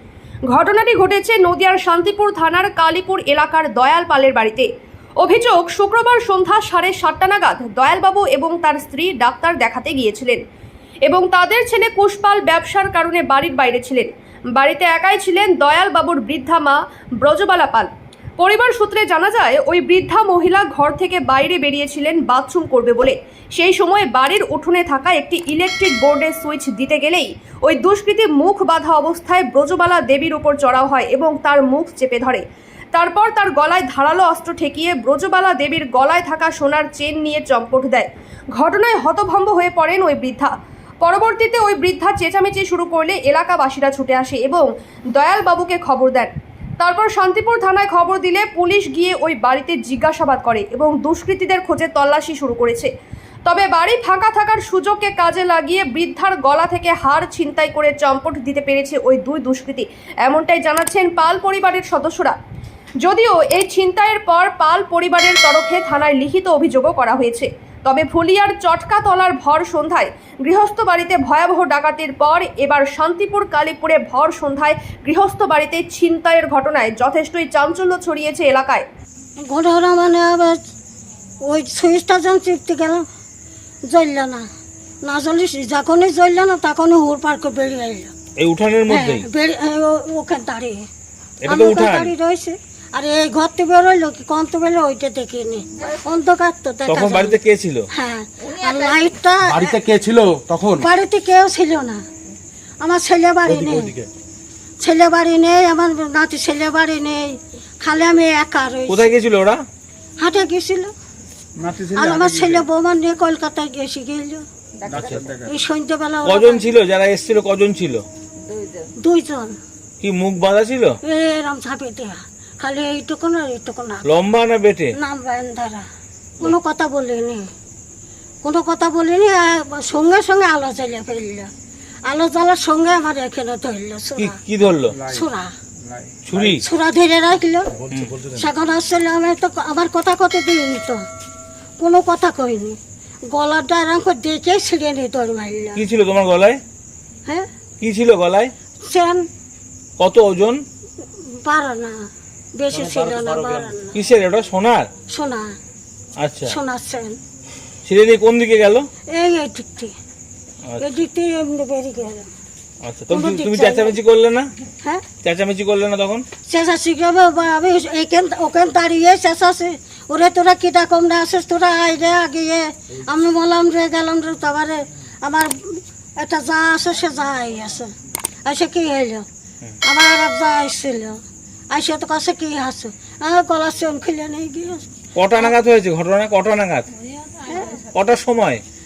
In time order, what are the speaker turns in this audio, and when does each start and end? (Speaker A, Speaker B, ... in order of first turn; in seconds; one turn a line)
Speaker A: 0.5-4.7
Speaker A: 5.2-10.4
Speaker A: 11.1-32.4
Speaker A: 32.9-52.9
Speaker A: 53.5-62.4
Speaker A: 63.0-78.8
Speaker B: 79.5-80.6
Speaker B: 81.5-83.1
Speaker B: 83.9-84.5
Speaker B: 85.0-88.1
Speaker C: 88.4-89.3
Speaker B: 88.9-90.9
Speaker C: 91.4-92.1
Speaker B: 91.5-97.4
Speaker C: 96.9-97.9
Speaker B: 97.9-99.8
Speaker D: 99.5-100.8
Speaker B: 100.8-102.0
Speaker B: 102.8-104.0
Speaker D: 103.5-104.0
Speaker B: 104.8-109.1
Speaker C: 108.9-109.7
Speaker B: 110.2-110.9
Speaker D: 111.6-112.6
Speaker B: 111.9-114.5
Speaker D: 114.9-115.5
Speaker C: 114.9-115.2
Speaker B: 115.5-116.7
Speaker C: 116.2-118.0
Speaker B: 119.0-119.6
Speaker C: 120.0-121.0
Speaker B: 121.0-124.0
Speaker C: 124.1-125.0
Speaker B: 124.9-125.9
Speaker B: 126.4-127.5
Speaker B: 128.4-131.5
Speaker B: 132.1-134.4
Speaker C: 134.2-135.0
Speaker D: 134.9-135.2
Speaker B: 135.1-135.6
Speaker D: 135.9-136.4
Speaker C: 136.3-136.6
Speaker B: 136.6-141.1
Speaker C: 137.9-138.2
Speaker B: 141.8-145.8
Speaker C: 145.8-146.6
Speaker C: 147.8-148.5
Speaker B: 148.8-149.3
Speaker C: 150.0-150.6
Speaker B: 151.2-154.0
Speaker C: 153.9-154.9
Speaker B: 155.1-155.5
Speaker C: 156.2-156.6
Speaker B: 156.4-157.2
Speaker C: 157.8-158.9
Speaker B: 159.1-159.9
Speaker B: 160.8-162.3
Speaker C: 162.8-164.5
Speaker B: 163.1-163.9
Speaker C: 165.2-166.2
Speaker B: 166.5-177.9
Speaker B: 178.5-179.3
Speaker B: 179.8-181.2
Speaker B: 181.7-185.6
Speaker C: 185.2-186.9
Speaker B: 187.4-187.8
Speaker C: 187.9-188.6